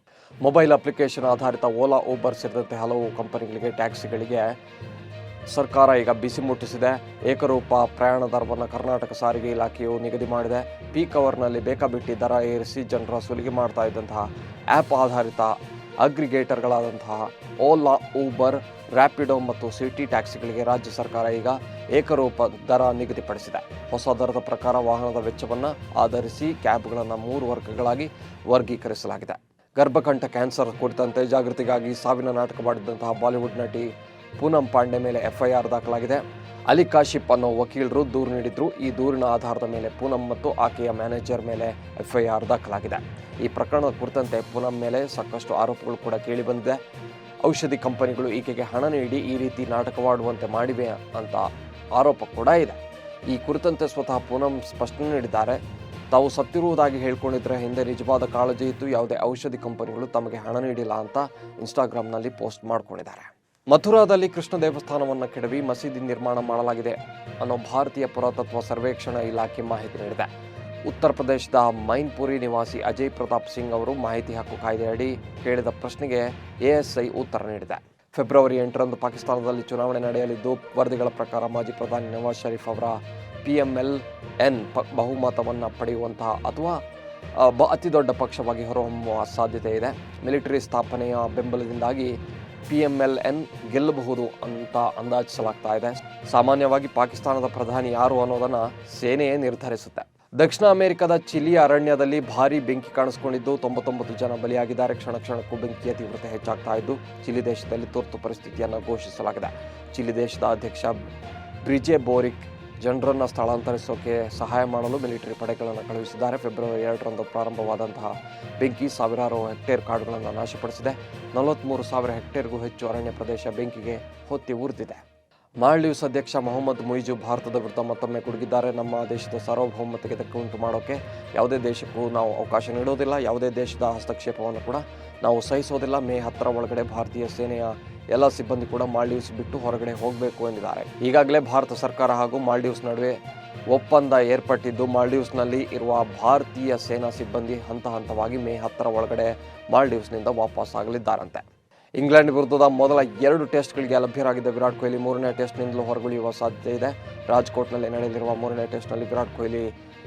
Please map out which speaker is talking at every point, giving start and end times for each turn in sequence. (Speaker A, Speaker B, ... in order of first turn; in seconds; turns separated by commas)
Speaker A: 0.4-4.6, Speaker A: 5.5-46.8, Speaker A: 47.4-55.6, Speaker A: 56.1-70.3, Speaker A: 70.9-86.8, Speaker A: 87.4-111.0, Speaker A: 111.6-125.0, Speaker A: 125.6-143.2, Speaker A: 143.7-151.4, Speaker A: 152.0-159.7